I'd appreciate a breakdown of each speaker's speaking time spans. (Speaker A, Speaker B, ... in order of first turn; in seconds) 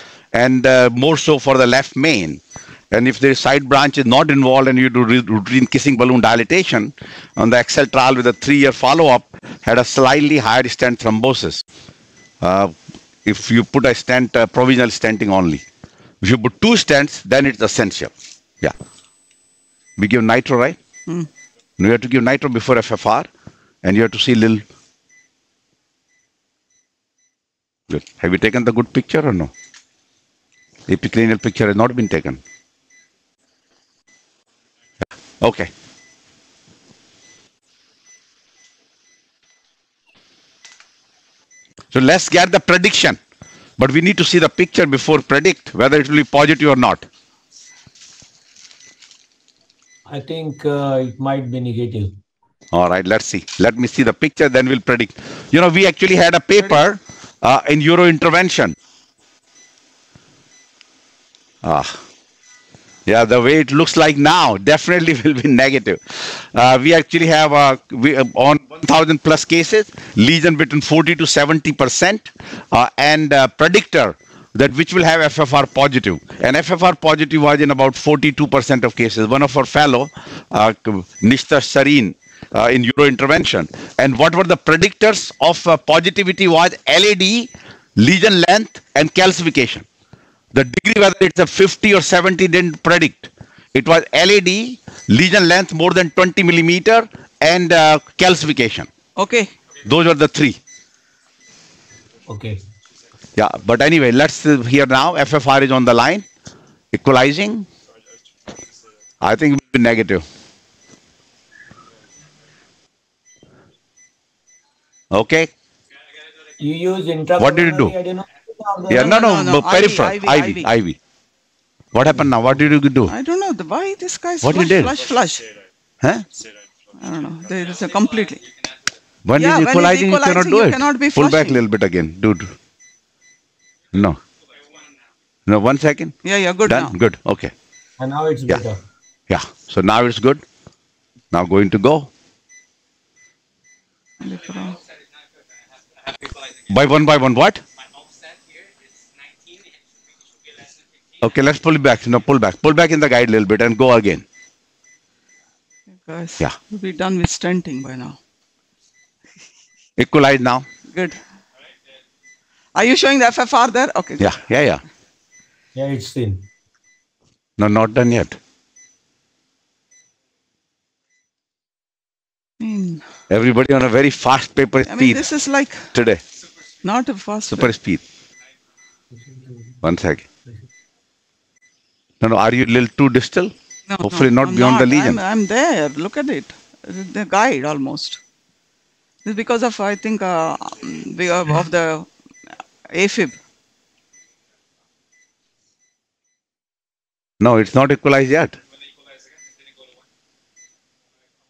Speaker A: 0.3-11.6, 12.4-15.6, 16.2-18.7, 20.0-20.8, 21.8-23.3, 23.8-24.6, 27.9-29.5, 30.9-32.4, 35.4-35.7, 41.9-43.2, 43.8-47.0, 52.7-58.7, 61.6-62.0, 63.1-89.8, 90.5-98.9, 99.8-100.6, 103.3-106.2, 106.9-107.7, 109.2-110.2, 115.1-115.5, 117.4-117.9, 118.9-121.0, 121.9-123.1, 124.4-125.0, 129.2-132.5, 133.9-134.2, 135.5-137.5, 139.3-140.4, 141.3-142.1, 146.7-147.6, 151.2-154.2, 160.0-160.6, 164.2-164.8, 167.6-168.4, 173.3-175.2, 175.9-176.2, 177.5-178.0, 179.8-180.2, 182.2-185.2, 197.4-198.6
Speaker B: 50.1-52.2, 102.3-102.6, 116.6-119.2, 138.0-138.8, 165.7-166.4
Speaker C: 99.2-99.5, 119.0-120.7, 123.1-125.5, 127.0-128.4, 129.3-131.6, 136.2-136.9, 144.2-144.8, 156.1-158.2, 160.9-161.2, 162.7-164.3, 172.6-173.0, 174.9-175.9, 176.8-177.7, 183.9-188.2, 189.2-192.1, 192.9-193.4